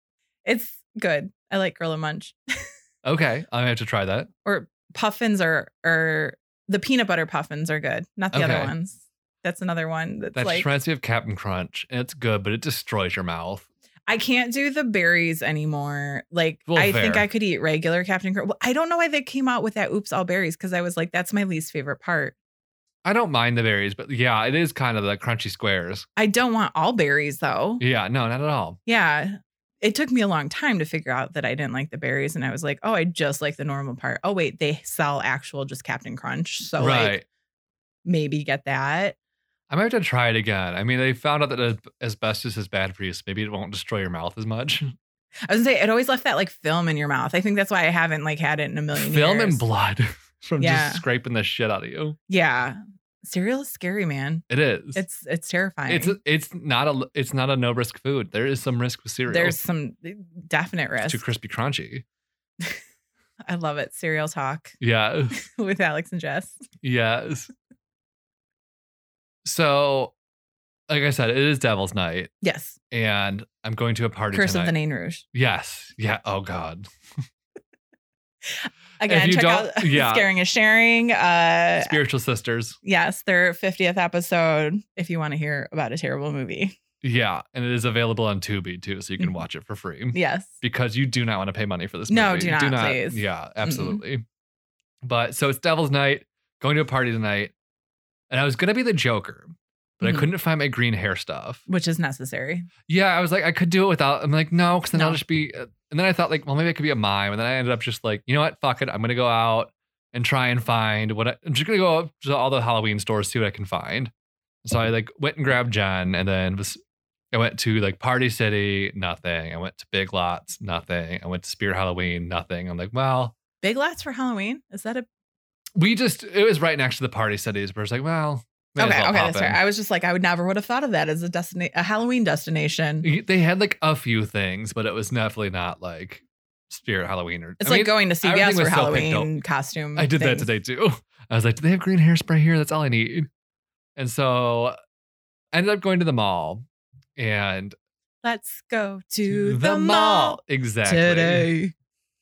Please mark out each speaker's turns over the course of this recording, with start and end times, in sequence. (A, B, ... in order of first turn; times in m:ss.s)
0:00.4-0:02.4 A
0:03.0-0:04.3 B
0:04.4-0:10.7 A
0:08.3-0:08.7 B
0:10.3-0:13.7 B
0:14.1-0:22.4 A
0:16.7-0:17.2 B
0:23.0-0:26.0 B
0:26.2-0:27.8 A
0:27.8-0:28.8 B
0:28.8-0:37.2 A
0:36.8-0:37.2 B
0:38.0-0:39.2 A
0:39.7-0:44.9 B
0:45.5-0:49.6 A
0:49.0-0:52.2 B
0:50.6-0:51.0 A
0:52.3-0:56.2 A
0:54.5-0:55.0 B
0:55.9-0:59.6 B
0:59.3-1:01.2 A
1:01.0-1:02.0 B
1:03.5-1:04.8 A
1:04.8-1:05.3 B
1:05.3-1:06.6 A
1:06.8-1:07.5 B
1:09.4-1:10.1 B
1:10.9-1:12.3 B
1:12.4-1:12.8 A
1:12.9-1:14.7 B
1:14.3-1:15.2 A
1:15.3-1:17.2 B
1:18.4-1:22.0 A
1:19.1-1:20.3 B
1:21.8-1:22.8 B
1:22.8-1:26.8 A
1:27.0-1:34.2 B
1:30.1-1:30.5 A
1:32.1-1:34.0 A
1:35.0-1:37.5 B
1:38.3-1:41.6 B
1:40.0-1:40.3 A
1:41.7-1:42.7 A
1:42.9-1:54.1 B
1:44.9-1:45.2 A
1:54.6-1:56.8 B
1:57.3-2:03.3 B
2:03.6-2:05.0 A
2:05.8-2:09.6 B
2:08.8-2:13.1 A
2:13.0-2:19.3 B
2:17.6-2:20.5 A
2:20.0-2:23.3 B
2:24.0-2:24.8 B
2:25.5-2:26.6 B
2:27.2-2:27.8 B
2:28.2-2:31.7 A
2:29.3-2:31.5 B